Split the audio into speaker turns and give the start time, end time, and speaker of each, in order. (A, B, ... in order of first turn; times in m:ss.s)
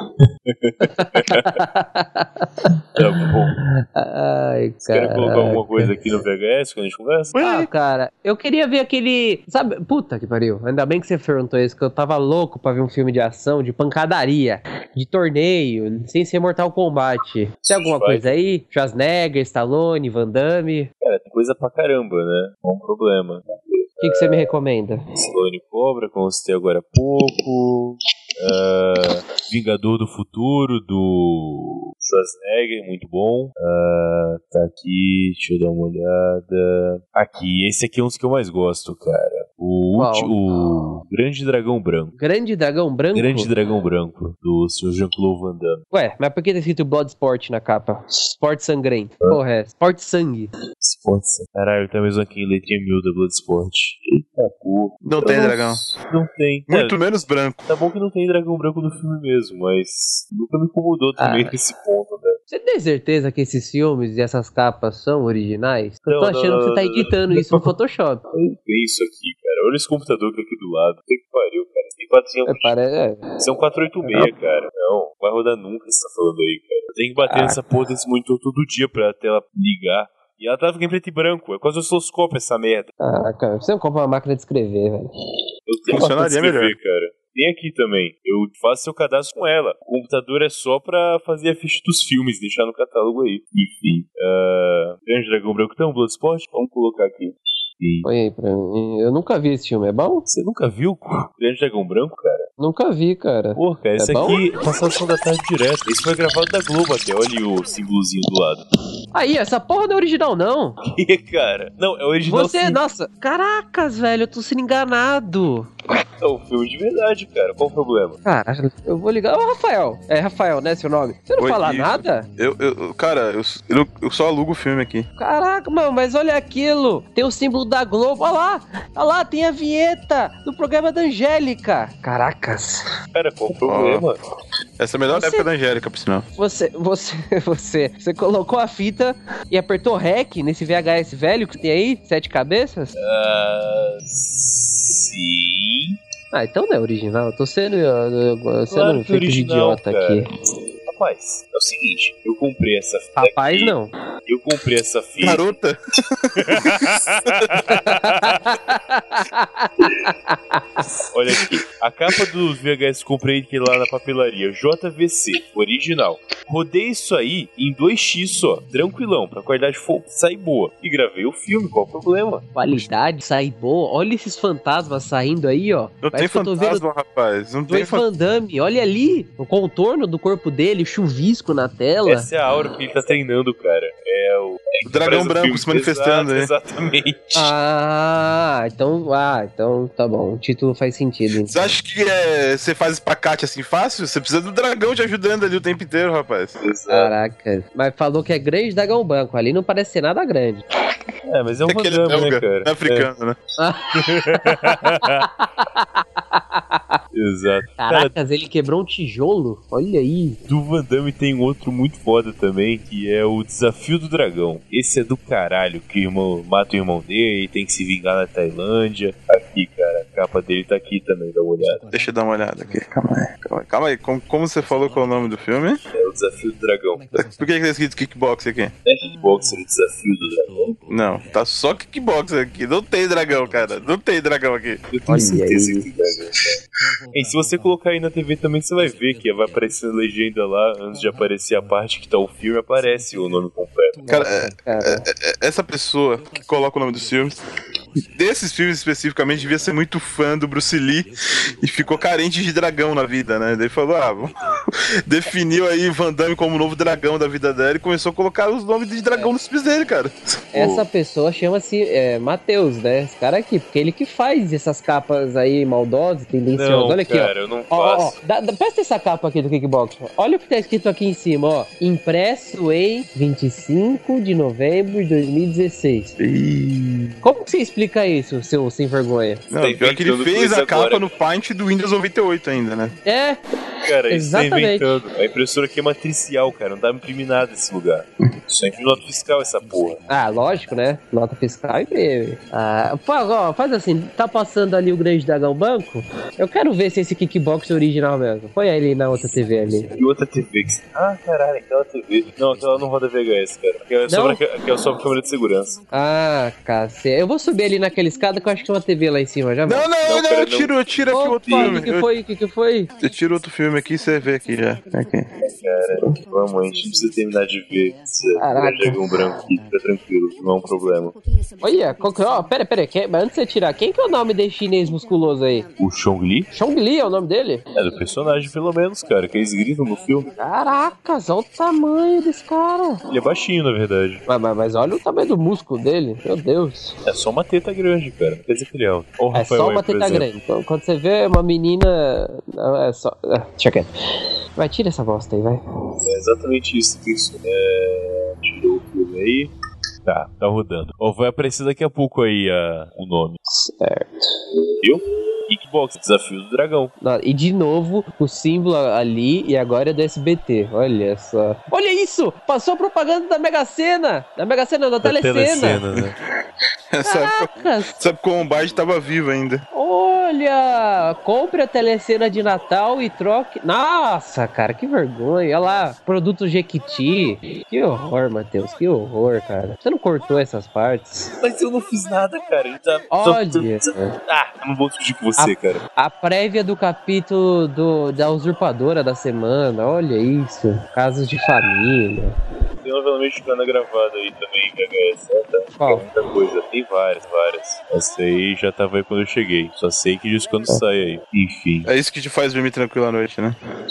0:00.2-0:01.6 A
0:00.9-0:05.9 B
0:03.0-0:03.6 A
0:04.8-0:07.5 A
0:07.3-0:07.7 C
0:07.4-0:20.9 B
0:17.6-0:18.3 A
0:21.0-0:24.5 A
0:24.0-0:25.0 B
0:25.1-0:42.1 A
0:40.0-0:40.3 B
0:42.2-0:43.5 B
0:43.1-0:45.8 A
0:45.9-0:50.5 B
0:50.8-0:57.0 A
0:55.0-0:55.8 C
0:56.7-0:57.6 C
0:57.7-1:02.4 A
1:01.2-1:01.5 B
1:02.5-1:08.2 B
1:06.1-1:07.7 A
1:08.3-1:12.7 A
1:12.5-1:13.4 B
1:13.4-1:22.9 A
1:17.3-1:17.6 B
1:23.0-1:25.1 B
1:25.7-1:38.1 A
1:25.9-1:26.7 C
1:38.0-1:40.2 B
1:40.3-1:42.5 A
1:42.6-1:44.4 B
1:43.6-1:48.6 A
1:49.1-1:50.8 B
1:50.8-1:52.8 A
1:52.2-1:55.7 B
1:56.2-1:58.2 A
1:58.2-2:02.3 B
2:01.4-2:05.1 C
2:05.2-2:12.8 B
2:13.1-2:14.2 A
2:13.6-2:14.0 C
2:14.8-2:16.2 C
2:15.1-2:15.5 B
2:16.4-2:22.9 B
2:23.0-2:26.0 A
2:26.3-2:30.3 B
2:28.7-2:30.2 A
2:30.8-2:35.4 A
2:33.2-2:33.9 B
2:35.2-2:38.0 C
2:36.4-2:38.5 A
2:37.7-2:40.9 B
2:41.1-2:52.4 A
2:52.5-2:56.8 B
2:56.0-2:58.0 C
2:57.7-3:02.3 B
3:02.0-3:07.5 A
3:04.8-3:06.5 C
3:07.3-3:11.7 B
3:11.4-3:16.6 C
3:16.6-3:17.1 A
3:16.9-3:20.6 B
3:21.2-3:23.1 A
3:21.7-3:23.4 C
3:23.6-3:27.0 B
3:23.9-3:25.3 A
3:27.1-3:28.1 A
3:27.8-3:30.4 B
3:30.4-3:41.8 A
3:41.9-3:45.8 C
3:45.9-3:47.0 A
3:47.1-3:48.7 C
3:48.8-3:50.8 A
3:50.9-3:54.8 C
3:54.9-3:56.4 A
3:55.1-3:55.9 B
3:57.1-4:04.1 A
4:04.1-4:05.0 B
4:04.1-4:07.4 C
4:08.1-4:14.3 C
4:15.1-4:20.5 C
4:20.5-4:36.1 B
4:20.5-4:20.8 A
4:26.5-4:28.2 A
4:36.2-4:37.2 C
4:37.2-4:39.4 B
4:39.5-4:42.9 C
4:39.5-4:41.1 A
4:43.0-4:43.4 B
4:43.8-4:50.0 A
4:44.1-4:45.0 B
4:50.1-4:59.9 B
5:00.0-5:05.8 A
5:04.1-5:04.4 B
5:05.9-5:09.9 B
5:09.6-5:12.0 C
5:10.0-5:10.8 A
5:11.1-5:12.9 B
5:13.0-5:15.3 C
5:15.4-5:21.2 A
5:18.4-5:19.0 B
5:21.6-5:25.7 B
5:25.8-5:26.5 A
5:26.5-5:27.6 B
5:27.7-5:30.3 A
5:30.4-5:33.0 B
5:33.1-5:34.2 A
5:34.3-5:37.0 B
5:37.0-5:40.3 A
5:39.3-5:43.9 B
5:44.6-5:45.6 B
5:46.0-5:49.5 A
5:50.0-5:53.4 A
5:53.5-5:54.4 B
5:54.8-5:56.9 A
5:57.0-6:05.8 B
6:05.0-6:06.1 A
6:06.9-6:09.6 C
6:07.0-6:07.9 B
6:09.7-6:21.3 B
6:21.4-6:25.8 A
6:23.1-6:24.2 B
6:25.4-6:32.4 B
6:32.8-6:41.9 A
6:35.8-6:36.1 B
6:41.8-6:43.6 C